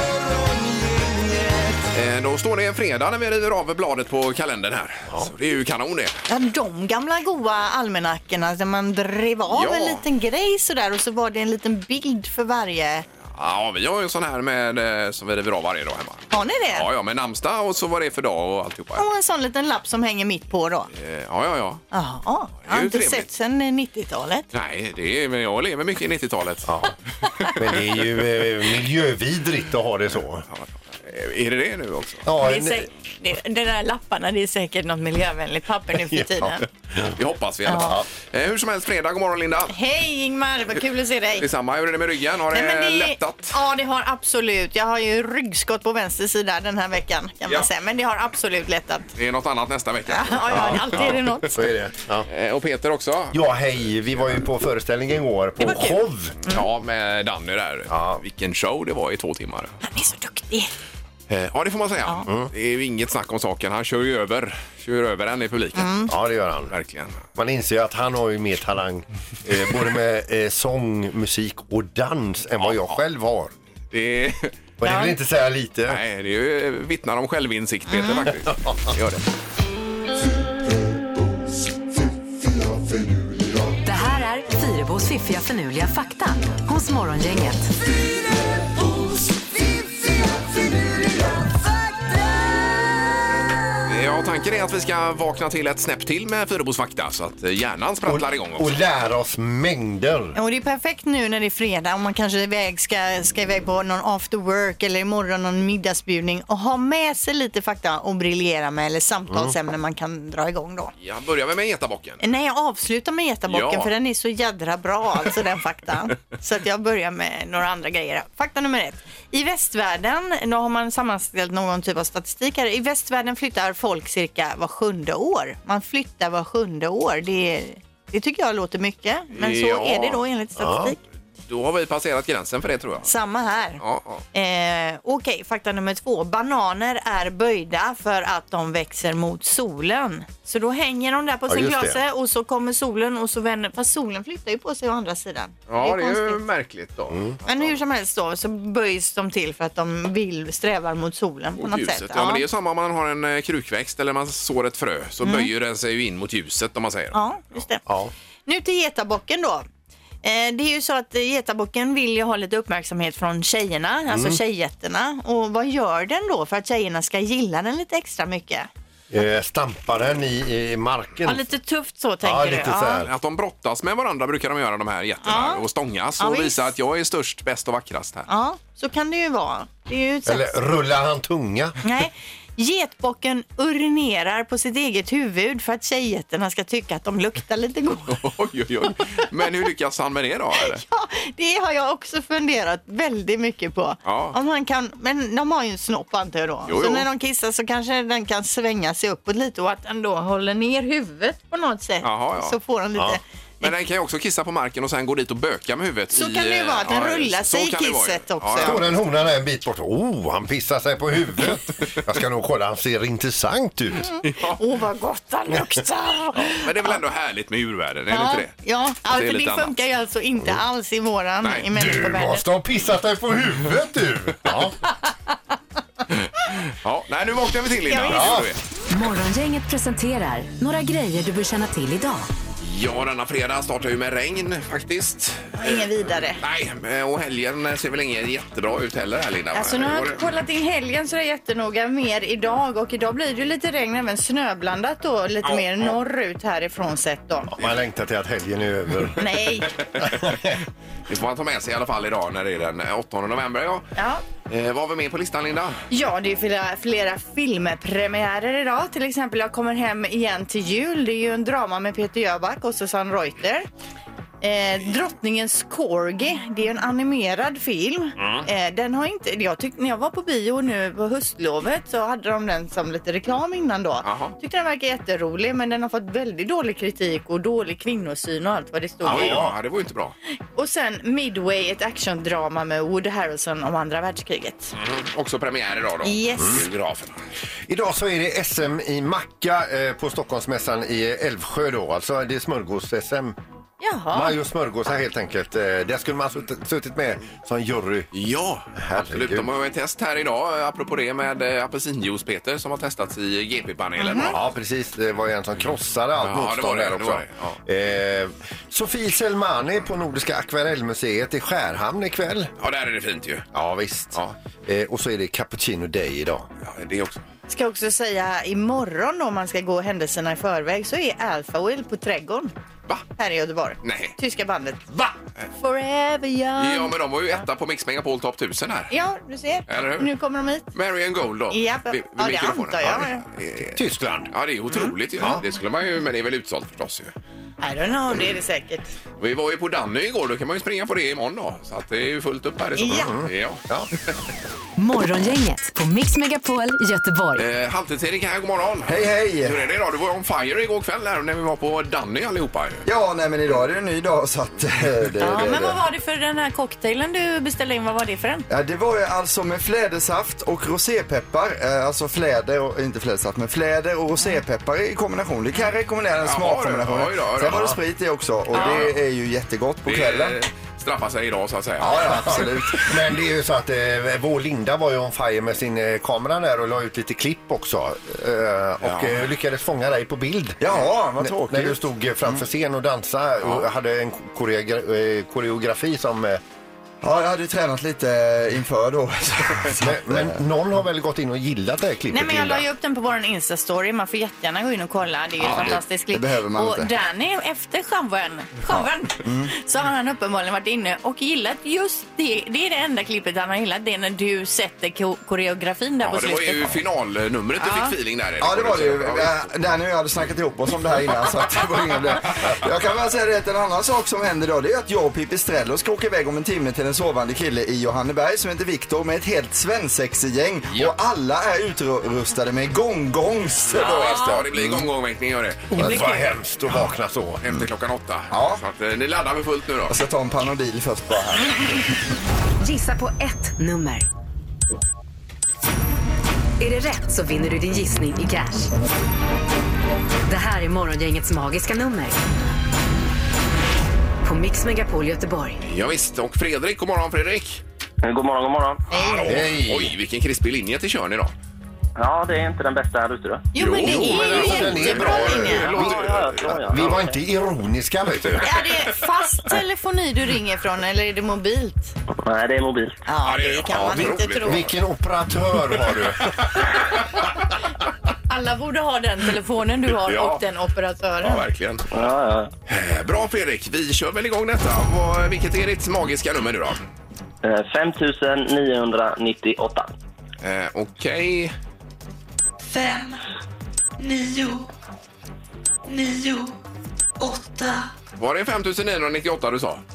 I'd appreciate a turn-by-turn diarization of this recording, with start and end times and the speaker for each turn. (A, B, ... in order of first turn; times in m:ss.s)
0:01.9-0:06.2 A
0:06.3-0:13.0 B
0:09.5-0:10.0 A
0:13.3-0:19.0 A
0:16.3-0:16.9 B
0:19.0-0:20.9 B
0:20.9-0:21.8 A
0:21.9-0:24.5 B
0:22.7-0:23.2 A
0:24.5-0:26.8 A
0:26.7-0:26.9 C
0:27.2-0:27.9 A
0:27.5-0:30.5 C
0:30.5-0:32.2 A
0:32.2-0:32.9 C
0:32.4-0:36.6 B
0:36.1-0:37.2 C
0:37.1-0:39.7 A
0:37.7-0:38.0 B
0:39.7-0:41.5 B
0:41.4-0:43.5 A
0:42.5-0:49.1 B
0:49.2-0:51.1 A
0:50.1-0:51.6 B
0:50.5-0:52.3 C
0:52.3-0:53.6 A
0:53.3-0:56.4 C
0:55.6-0:56.0 B
0:56.5-0:59.7 A
0:57.9-0:58.2 C
0:59.8-1:00.7 B
1:01.3-1:06.1 A
1:02.2-1:02.5 C
1:05.8-1:06.1 B
1:06.1-1:06.7 C
1:06.7-1:07.2 A
1:07.3-1:13.5 C
1:12.6-1:13.0 A
1:13.9-1:14.6 A
1:14.8-1:16.0 C
1:14.8-1:15.2 B
1:15.9-1:19.2 A
1:17.9-1:18.2 B
1:23.8-1:27.7 D
1:33.9-1:38.8 A
1:38.1-1:40.4 C
1:40.4-1:50.9 B
1:51.0-1:52.2 A
1:52.2-2:11.0 B
1:53.5-1:53.9 A
2:09.3-2:10.2 A
2:10.6-2:10.9 C
2:11.5-2:13.1 A
2:13.0-2:13.8 B
2:13.8-2:14.2 A
2:14.3-2:26.4 B
2:21.5-2:22.0 C
2:25.7-2:27.8 A
2:27.1-2:27.4 C
2:27.5-2:32.4 B
2:31.6-2:37.6 A
2:35.2-2:35.5 B
2:37.1-2:37.9 B
2:37.9-2:38.1 C
2:38.5-2:39.7 B
2:40.2-2:48.7 B
2:44.1-2:44.4 C
2:49.1-2:51.4 C
2:51.2-2:53.0 B
2:52.2-2:53.1 C
2:53.0-2:58.3 A
2:55.2-2:55.6 B
2:56.2-2:56.7 B
2:58.3-3:00.6 B
3:00.2-3:01.8 C
3:01.8-3:08.2 B
3:08.1-3:10.8 A
3:10.6-3:23.2 B
3:14.0-3:14.4 A
3:16.7-3:17.1 A
3:22.0-3:22.6 A
3:23.6-3:28.9 A
3:26.1-3:28.8 B
3:28.6-3:34.1 C
3:34.0-3:37.0 B
3:36.5-3:38.5 A
3:38.1-3:42.4 B
3:39.1-3:39.7 A
3:41.7-3:44.8 C
3:46.1-3:48.6 A
3:47.9-3:48.3 B
3:48.1-3:48.5 C
3:48.9-3:52.3 D
3:52.6-4:00.2 A
3:55.6-3:56.4 B
3:59.5-4:07.5 B
4:05.4-4:05.9 A
4:07.5-4:09.2 C
4:09.2-4:09.8 B
4:10.0-4:10.4 A
4:10.0-4:10.5 C
4:11.1-4:13.9 A
4:14.0-4:14.2 B
4:14.5-4:15.8 A
4:15.9-4:23.7 B
4:24.4-4:39.4 B
4:28.2-4:28.4 A
4:34.0-4:34.4 A
4:39.0-4:39.6 C
4:39.0-4:40.2 A
4:40.6-4:44.8 B
4:44.8-4:47.2 A
4:46.0-4:46.6 B
4:47.7-4:53.4 C
4:53.8-4:54.4 B
4:54.1-4:58.1 C
4:58.1-5:04.4 A
4:58.8-4:59.5 C
5:04.0-5:04.4 B
5:04.2-5:12.5 C
5:06.2-5:07.6 A
5:12.6-5:13.5 A
5:13.5-5:16.5 C
5:16.6-5:17.2 A
5:17.5-5:22.5 B
5:23.2-5:24.9 B
5:23.8-5:24.1 A
5:25.6-5:26.9 B
5:26.6-5:28.9 A
5:28.9-5:30.7 B
5:29.7-5:30.1 A
5:30.7-5:33.8 A
5:31.5-5:33.2 B
5:33.8-5:34.3 C
5:34.3-5:37.1 A
5:37.6-5:38.9 B
5:39.2-5:43.6 A
5:42.8-5:43.1 B
5:42.8-5:43.9 C
5:44.8-5:47.4 D
5:47.4-5:52.8 A
5:48.9-5:49.6 E
5:52.8-5:55.8 E
5:55.2-5:58.5 B
5:58.5-6:10.4 E
6:06.2-6:07.7 A
6:07.5-6:07.8 C
6:08.5-6:08.9 A
6:08.5-6:08.8 B
6:09.9-6:12.8 A
6:11.8-6:26.4 C
6:11.8-6:12.9 E
6:18.8-6:19.3 A
6:20.6-6:21.8 E
6:23.4-6:23.7 A
6:27.0-6:30.4 E
6:29.8-6:32.7 C
6:32.1-6:46.8 B
6:35.5-6:36.9 E
6:39.2-6:39.5 E
6:46.0-6:49.5 A
6:47.6-6:47.9 B
6:48.4-7:04.6 E
7:03.7-7:06.3 A
7:04.0-7:04.6 C
7:05.7-7:07.4 C
7:07.4-7:09.9 A
7:08.3-7:08.6 E
7:09.9-7:11.9 E
7:12.6-7:14.1 D
7:16.6-7:18.7 D
7:20.2-7:22.2 D
7:24.2-7:25.6 D
7:25.6-7:27.6 A
7:28.0-7:28.8 F
7:28.9-7:29.4 B
7:28.9-7:31.3 A
7:29.2-7:29.9 C
7:32.0-7:33.5 F
7:33.5-7:35.8 B
7:33.6-7:37.0 A
7:33.8-7:38.6 C
7:35.6-7:37.2 F
7:38.4-7:41.9 B
7:42.2-7:43.0 F
7:43.1-7:44.7 B
7:43.2-7:44.7 A
7:44.0-7:46.6 C
7:45.8-7:46.9 A
7:48.3-7:51.4 B
7:50.0-7:50.4 A
7:51.2-7:51.9 A
7:51.9-7:52.5 F
7:52.7-7:56.8 A
7:57.4-7:59.9 F
8:00.4-8:01.5 A
8:02.6-8:03.2 G
8:04.0-8:04.7 G
8:05.9-8:06.6 G
8:07.2-8:07.9 G
8:08.2-8:09.8 A